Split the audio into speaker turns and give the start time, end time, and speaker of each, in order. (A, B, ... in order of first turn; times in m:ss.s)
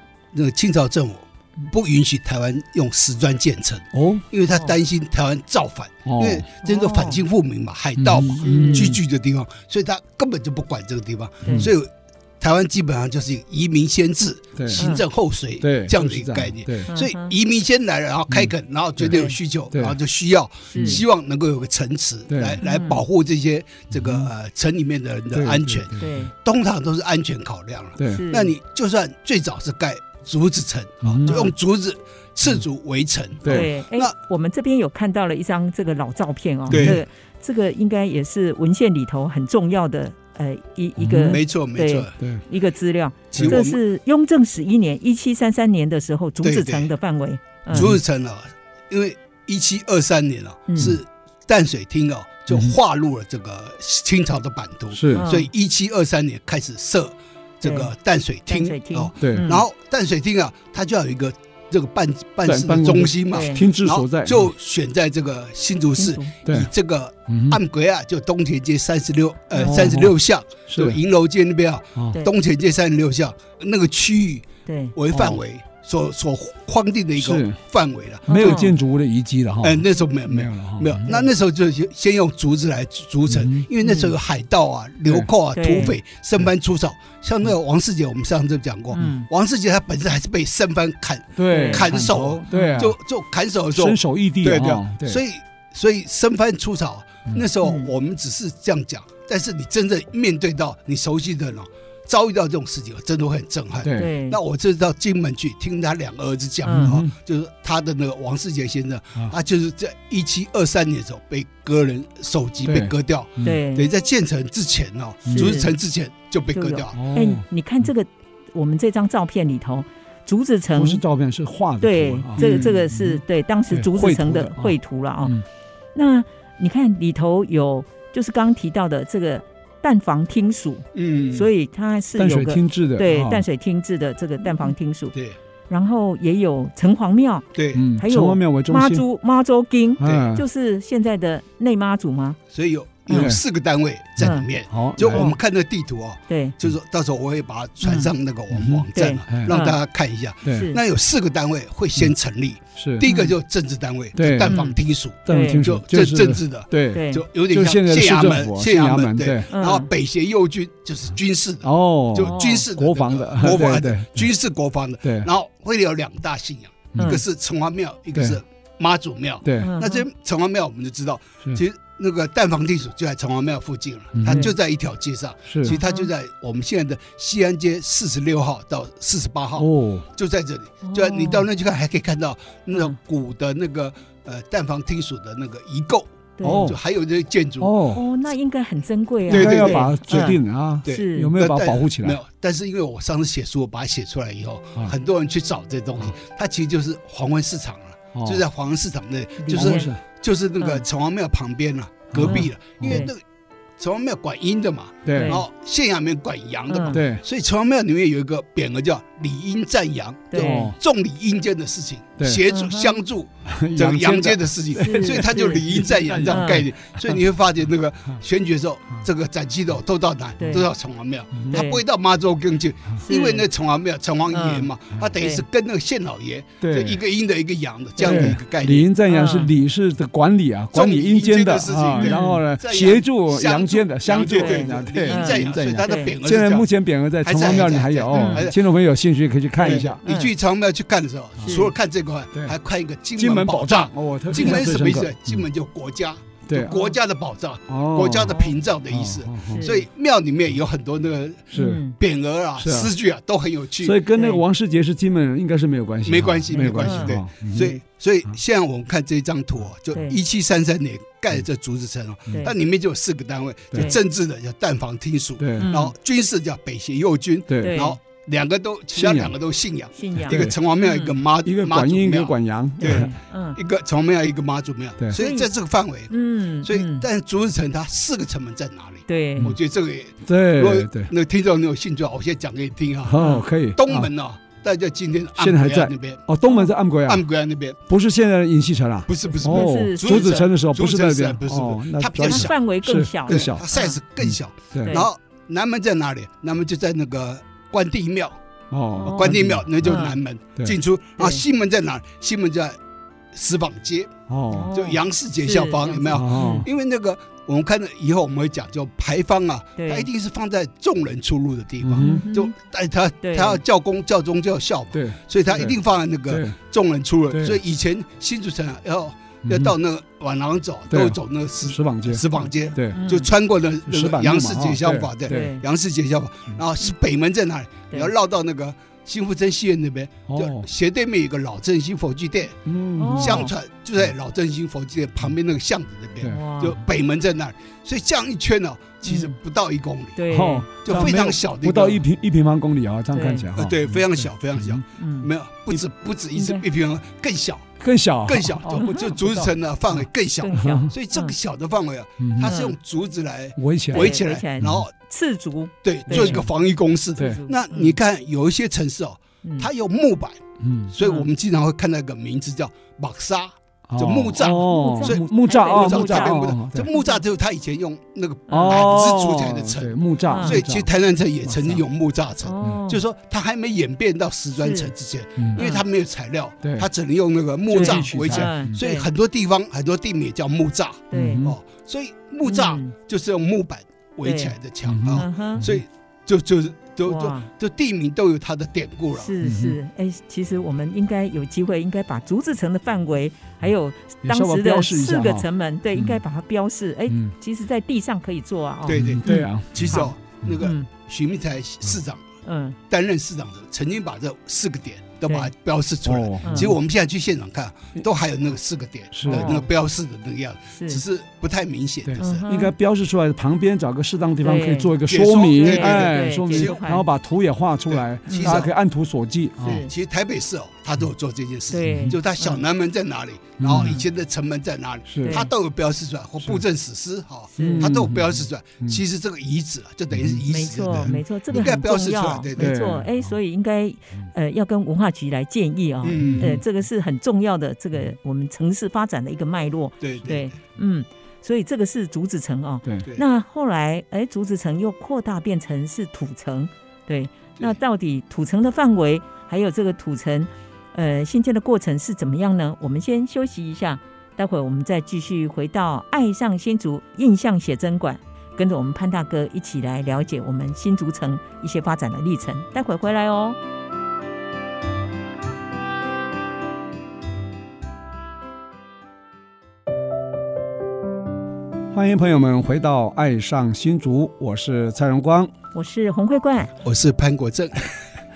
0:00.3-0:34.1 A
0:03.9-0:04.2 B
0:06.1-0:06.5 B
0:06.6-0:07.2 C
0:08.0-0:09.0 B
0:08.4-0:08.9 C
0:11.4-0:11.7 B
0:14.6-0:14.9 B
0:14.8-0:15.0 C
0:15.6-0:16.9 B
0:16.9-0:17.3 C
0:18.3-0:19.2 B
0:19.1-0:19.4 C
0:19.7-0:20.0 B
0:20.7-0:21.0 C
0:20.8-0:21.0 B
0:22.3-0:22.6 B
0:22.6-0:23.0 C
0:23.9-0:24.3 B
0:25.3-0:26.2 B
0:26.0-0:26.3 C
0:28.0-0:28.2 B
0:28.1-0:28.5 C
0:31.0-0:31.4 B
0:33.5-0:47.9 C
0:36.7-0:37.0 B
0:36.7-0:37.0 A
0:41.0-0:41.4 B
0:41.1-0:42.2 A
0:43.3-0:43.8 A
0:43.3-0:43.6 B
0:46.4-0:46.9 A
0:47.7-1:18.7 A
0:47.7-0:48.0 B
0:50.7-0:51.0 C
0:54.9-0:55.3 B
0:55.1-0:55.5 C
0:57.6-0:57.9 C
0:58.5-0:59.6 C
0:59.2-0:59.6 B
1:02.4-1:04.5 B
1:03.3-1:03.6 C
1:06.0-1:06.3 C
1:06.4-1:06.7 B
1:07.3-1:07.6 B
1:09.6-1:09.8 C
1:09.6-1:10.2 B
1:10.7-1:11.0 B
1:14.7-1:15.0 C
1:15.1-1:15.4 B
1:17.2-1:17.6 B
1:18.3-1:18.7 C
1:18.3-1:21.1 B
1:19.6-1:57.0 A
1:23.3-1:23.7 B
1:23.8-1:24.1 C
1:25.6-1:26.0 C
1:29.0-1:29.3 C
1:31.4-1:33.0 B
1:31.5-1:32.0 C
1:32.5-1:32.9 C
1:33.7-1:35.2 B
1:37.6-1:37.9 C
1:43.8-1:44.1 B
1:43.9-1:44.4 C
1:46.6-1:47.0 C
1:46.8-1:47.1 B
1:52.6-1:53.6 B
1:53.4-1:53.9 C
1:55.3-1:55.6 B
1:55.3-1:55.7 C
1:56.5-2:01.0 C
1:56.9-1:57.4 B
2:00.8-2:05.4 B
2:01.8-2:05.4 C
2:02.4-2:02.8 A
2:06.0-2:15.1 C
2:11.0-2:11.5 A
2:12.2-2:13.4 B
2:15.7-2:22.4 C
2:17.6-2:17.9 A
2:17.7-2:19.0 B
2:20.0-2:20.4 B
2:20.0-2:20.3 A
2:22.5-3:07.8 A
2:23.1-2:23.4 B
2:24.2-2:25.3 B
2:24.2-2:24.5 C
2:25.1-2:25.4 C
2:26.3-2:26.6 C
2:28.5-2:29.6 B
2:28.9-2:29.8 C
2:30.5-2:30.8 C
2:32.8-2:33.1 B
2:33.0-2:33.3 C
2:34.2-2:34.5 B
2:34.4-2:35.6 C
2:35.3-2:39.5 B
2:36.9-2:37.2 C
2:39.5-2:39.9 C
2:41.6-2:44.3 B
2:42.2-2:42.6 C
2:45.0-2:45.3 B
2:47.0-2:47.2 C
2:49.4-2:49.7 B
2:49.6-2:50.0 C
2:54.2-2:54.5 B
2:54.3-2:54.5 C
2:55.5-2:55.8 B
2:55.7-2:56.1 C
2:59.6-3:00.1 B
3:00.8-3:01.5 C
3:06.4-3:06.8 C
3:06.4-3:06.8 B
3:07.6-3:08.0 B
3:07.9-3:11.3 C
3:09.3-3:23.2 A
3:09.3-3:12.2 B
3:18.2-3:18.4 B
3:19.4-3:19.9 C
3:19.5-3:20.0 B
3:20.6-3:20.8 C
3:22.1-3:23.1 B
3:22.2-3:23.1 C
3:23.8-3:48.9 A
3:25.0-3:25.4 B
3:25.1-3:25.4 C
3:26.7-3:27.0 C
3:26.9-3:27.2 B
3:30.3-3:30.7 C
3:30.4-3:30.8 B
3:32.2-3:32.4 B
3:32.5-3:33.0 C
3:33.5-3:37.2 B
3:34.8-3:36.7 C
3:40.4-3:40.7 C
3:41.4-3:41.6 B
3:41.5-3:41.8 C
3:43.0-3:43.5 C
3:44.3-3:45.4 C
3:46.6-3:47.0 B
3:48.0-3:48.4 C
3:48.0-4:00.0 B
3:49.1-3:49.5 C
3:50.7-3:56.7 A
3:52.0-3:52.4 C
3:54.4-3:56.1 C
3:57.2-3:58.6 A
3:58.1-3:58.4 C
3:59.6-4:14.0 A
3:59.7-4:00.3 C
4:01.4-4:01.7 C
4:03.2-4:05.4 B
4:06.5-4:06.9 B
4:07.7-4:09.6 B
4:09.5-4:09.8 C
4:11.5-4:11.8 B
4:11.6-4:12.0 C
4:12.6-4:12.9 B
4:13.8-4:17.8 B
4:14.1-4:14.4 C
4:16.1-4:46.2 A
4:16.5-4:17.2 C
4:19.9-4:20.2 C
4:22.3-4:22.5 C
4:25.4-4:25.7 B
4:25.6-4:25.9 C
4:27.5-4:27.8 B
4:27.6-4:28.0 C
4:29.0-4:29.4 B
4:30.0-4:31.2 C
4:30.3-4:30.6 B
4:31.4-4:33.1 B
4:32.8-4:33.6 C
4:35.1-4:35.5 C
4:36.1-4:37.1 C
4:39.1-4:39.6 C
4:40.2-4:41.1 B
4:43.0-4:44.1 B
4:43.2-4:43.4 C
4:45.4-4:47.2 B
4:47.0-4:47.8 A
4:47.9-4:53.6 B
4:49.1-4:52.5 A
4:49.4-4:50.5 C
4:52.2-4:54.0 C
4:53.3-4:58.4 A
4:54.2-4:55.0 B
4:58.7-5:00.0 B
4:59.0-4:59.2 C
4:59.0-5:02.8 A
4:59.8-5:00.2 C
5:01.2-5:01.4 C
5:03.3-5:04.1 A
5:04.3-5:04.7 B
5:04.5-5:06.7 C
5:04.7-5:32.6 A
5:06.1-5:06.7 B
5:09.8-5:10.1 C
5:11.8-5:12.2 B
5:12.0-5:12.5 C
5:13.2-5:13.6 C
5:14.9-5:16.6 B
5:17.3-5:17.6 B
5:19.4-5:19.8 B
5:20.9-5:23.0 B
5:22.9-5:23.3 C
5:23.9-5:25.5 B
5:25.3-5:25.6 C
5:30.3-5:30.7 B
5:32.7-5:33.5 B
5:33.0-5:33.5 C
5:33.2-5:40.2 A
5:36.3-5:36.8 C
5:39.1-5:39.4 C
5:40.2-5:41.0 C
5:40.3-5:44.8 B
5:40.8-5:42.0 A
5:43.1-5:43.5 C
5:43.5-5:54.9 A
5:45.0-5:45.3 C
5:46.4-5:46.6 C
5:47.8-5:49.5 B
5:48.7-5:49.1 C
5:50.4-5:51.4 C
5:50.5-5:50.9 B
5:52.2-5:52.6 B
5:52.4-5:52.8 C
5:53.6-5:54.9 B
5:53.9-5:56.5 C
5:55.8-6:29.3 A
5:56.1-5:56.5 B
5:57.2-5:58.0 C
5:59.4-5:59.7 C
6:00.6-6:00.9 B
6:01.0-6:01.3 C
6:03.9-6:06.9 B
6:04.4-6:07.2 C
6:08.5-6:08.9 C
6:08.5-6:10.9 B
6:10.3-6:10.6 C
6:11.4-6:11.8 B
6:12.4-6:13.0 C
6:14.6-6:14.9 C
6:15.6-6:15.8 C
6:16.6-6:16.9 B
6:17.7-6:18.8 B
6:17.7-6:19.1 C
6:21.1-6:21.4 C
6:21.1-6:21.6 B
6:22.4-6:22.9 C
6:24.2-6:24.5 C
6:24.8-6:25.8 B
6:25.1-6:25.7 C
6:27.0-6:27.5 C
6:29.2-6:40.9 C
6:29.4-6:29.8 B
6:34.2-6:36.2 B
6:38.9-6:42.2 A
6:38.9-6:40.6 B
6:42.4-6:42.8 C
6:42.9-6:52.4 A
6:46.0-6:46.8 B
6:46.4-6:46.7 C
6:49.1-6:49.6 B
6:49.3-6:49.7 C
6:50.7-6:51.0 C
6:52.1-6:59.8 B
6:52.2-6:52.7 C
6:54.4-6:54.9 C
6:55.0-6:56.8 A
6:55.6-6:57.0 C
6:57.9-6:58.7 A
6:58.3-6:58.6 C
6:59.6-7:12.9 A
6:59.6-6:59.9 C
7:01.7-7:02.6 C
7:01.9-7:02.2 B
7:03.6-7:04.0 B
7:03.8-7:04.0 C
7:05.1-7:05.4 B
7:05.2-7:05.5 C
7:07.5-7:07.9 C
7:07.6-7:09.0 B
7:10.1-7:11.2 B
7:10.5-7:43.6 C
7:12.6-7:13.1 B
7:16.0-7:16.6 A
7:16.2-7:16.6 B
7:20.0-7:20.5 A
7:51.9-7:55.5 B
7:55.7-7:56.7 C
7:56.8-7:57.9 A